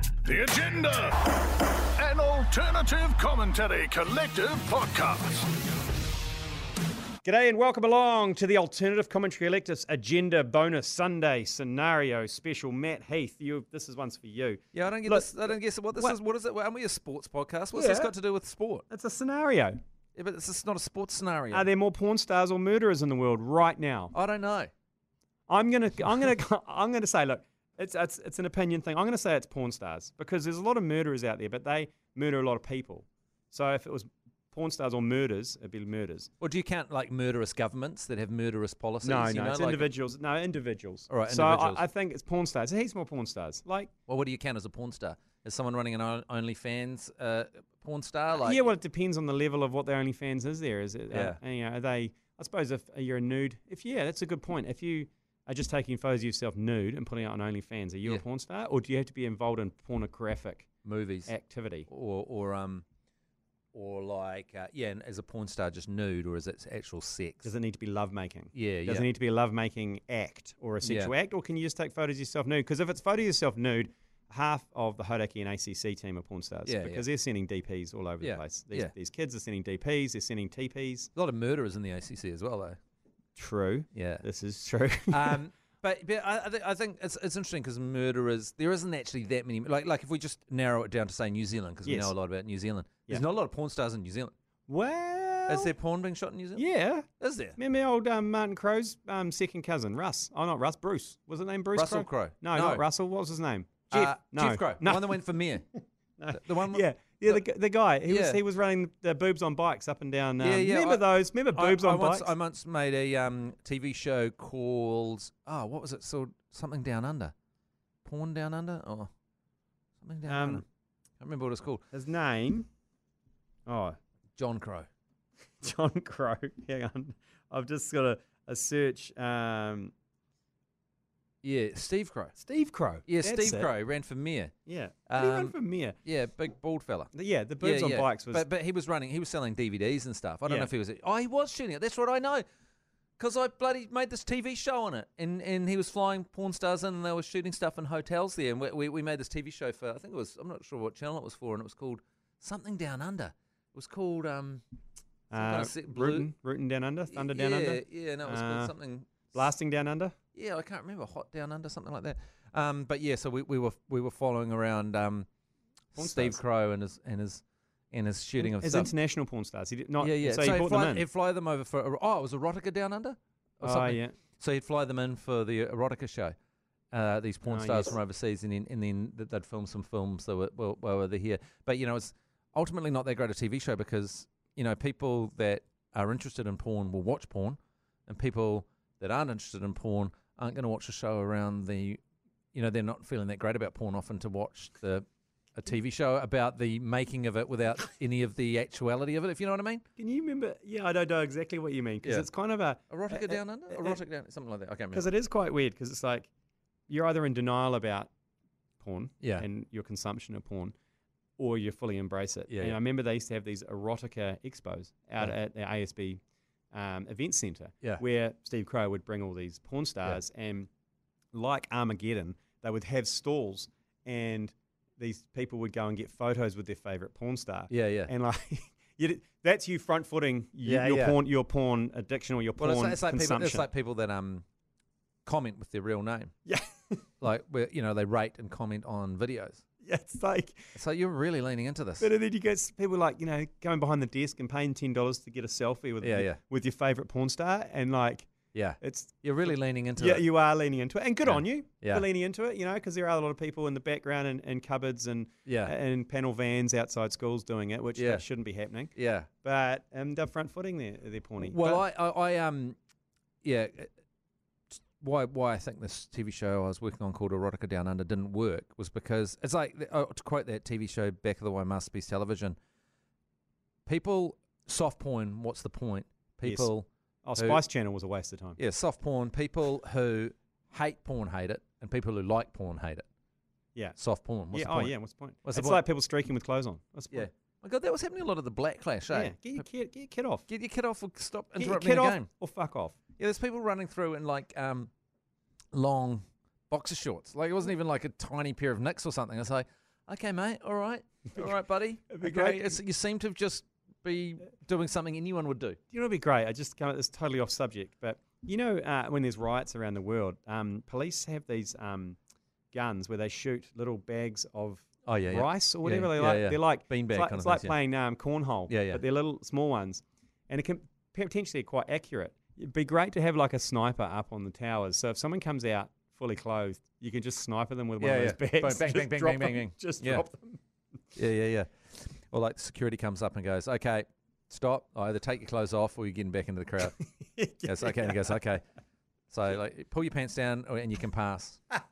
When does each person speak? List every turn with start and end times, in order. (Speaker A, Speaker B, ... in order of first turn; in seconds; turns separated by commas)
Speaker A: 0.2-1.3, Speaker A: 2.0-5.5, Speaker B: 7.2-16.2, Speaker C: 14.7-18.9, Speaker B: 17.7-18.1, Speaker B: 18.9-19.8, Speaker C: 20.1-21.7, Speaker B: 21.5-24.1, Speaker C: 24.1-24.7, Speaker B: 25.5-36.3, Speaker C: 36.4-39.9, Speaker B: 39.0-43.9, Speaker C: 41.1-41.8, Speaker C: 44.1-48.7, Speaker B: 48.4-60.7, Speaker C: 51.1-51.4, Speaker C: 60.8-61.3, Speaker B: 61.3-61.9, Speaker C: 61.9-62.9, Speaker C: 63.7-67.5, Speaker B: 67.4-81.1, Speaker C: 68.5-69.1, Speaker C: 70.8-71.1, Speaker C: 76.7-77.0, Speaker C: 78.2-78.9, Speaker C: 81.2-82.8, Speaker B: 83.3-85.4, Speaker C: 83.9-84.2, Speaker C: 85.1-94.3, Speaker B: 91.8-92.1, Speaker B: 94.7-95.7, Speaker C: 95.5-96.6, Speaker B: 96.6-105.2, Speaker C: 97.2-97.6, Speaker C: 101.8-102.8, Speaker C: 103.9-105.7, Speaker B: 106.2-112.3, Speaker C: 106.3-107.4, Speaker C: 108.0-108.4, Speaker C: 110.4-117.3, Speaker C: 118.0-119.1, Speaker C: 120.0-120.7, Speaker B: 120.3-120.6, Speaker C: 121.2-121.8, Speaker B: 121.9-122.7, Speaker B: 123.7-124.0, Speaker C: 124.4-124.9, Speaker B: 125.6-129.9, Speaker C: 131.4-132.4, Speaker B: 132.4-133.7, Speaker C: 133.1-134.5, Speaker B: 134.7-136.0, Speaker C: 135.1-142.4, Speaker B: 137.1-138.5, Speaker B: 140.5-140.7, Speaker C: 143.2-154.6, Speaker B: 155.3-158.7, Speaker C: 155.3-156.3, Speaker C: 157.1-159.4, Speaker B: 159.3-160.2, Speaker C: 160.3-165.3, Speaker C: 165.9-168.9, Speaker B: 166.0-166.4, Speaker B: 168.4-171.1, Speaker C: 170.0-176.3, Speaker B: 173.6-174.2, Speaker C: 176.9-192.0, Speaker B: 177.5-178.0, Speaker C: 192.5-195.1, Speaker C: 195.6-199.8, Speaker B: 200.0-204.0, Speaker C: 202.9-205.1, Speaker B: 204.9-206.3, Speaker B: 206.9-208.1, Speaker B: 208.8-210.7, Speaker C: 209.2-209.5, Speaker B: 211.4-216.2, Speaker C: 212.5-212.8, Speaker B: 216.7-220.7, Speaker B: 221.3-233.7, Speaker C: 227.7-228.1, Speaker C: 230.6-231.2, Speaker C: 232.6-234.4, Speaker C: 235.2-236.3, Speaker B: 236.5-237.1, Speaker C: 237.2-239.6, Speaker B: 239.8-240.7, Speaker C: 240.7-242.1, Speaker B: 242.0-248.3, Speaker C: 246.0-246.4, Speaker C: 248.5-250.3, Speaker B: 248.8-261.9, Speaker C: 251.2-252.1, Speaker C: 255.5-255.7, Speaker C: 258.0-258.2, Speaker C: 258.9-259.3, Speaker C: 261.4-262.8, Speaker C: 263.4-263.9, Speaker C: 265.0-272.6, Speaker C: 273.9-277.6, Speaker B: 276.4-276.7, Speaker B: 277.2-278.6, Speaker C: 278.6-283.0, Speaker C: 284.0-285.8, Speaker B: 284.5-287.3, Speaker C: 287.1-289.6, Speaker B: 289.1-290.5, Speaker C: 290.5-292.3, Speaker B: 291.6-293.0, Speaker C: 293.2-294.9, Speaker C: 295.7-305.8, Speaker B: 302.1-302.8, Speaker B: 305.9-312.2, Speaker B: 312.7-330.6, Speaker C: 315.1-317.8, Speaker C: 318.7-319.0, Speaker C: 328.0-330.3, Speaker C: 331.1-337.0, Speaker B: 337.0-338.4, Speaker C: 337.6-338.6, Speaker C: 339.3-341.6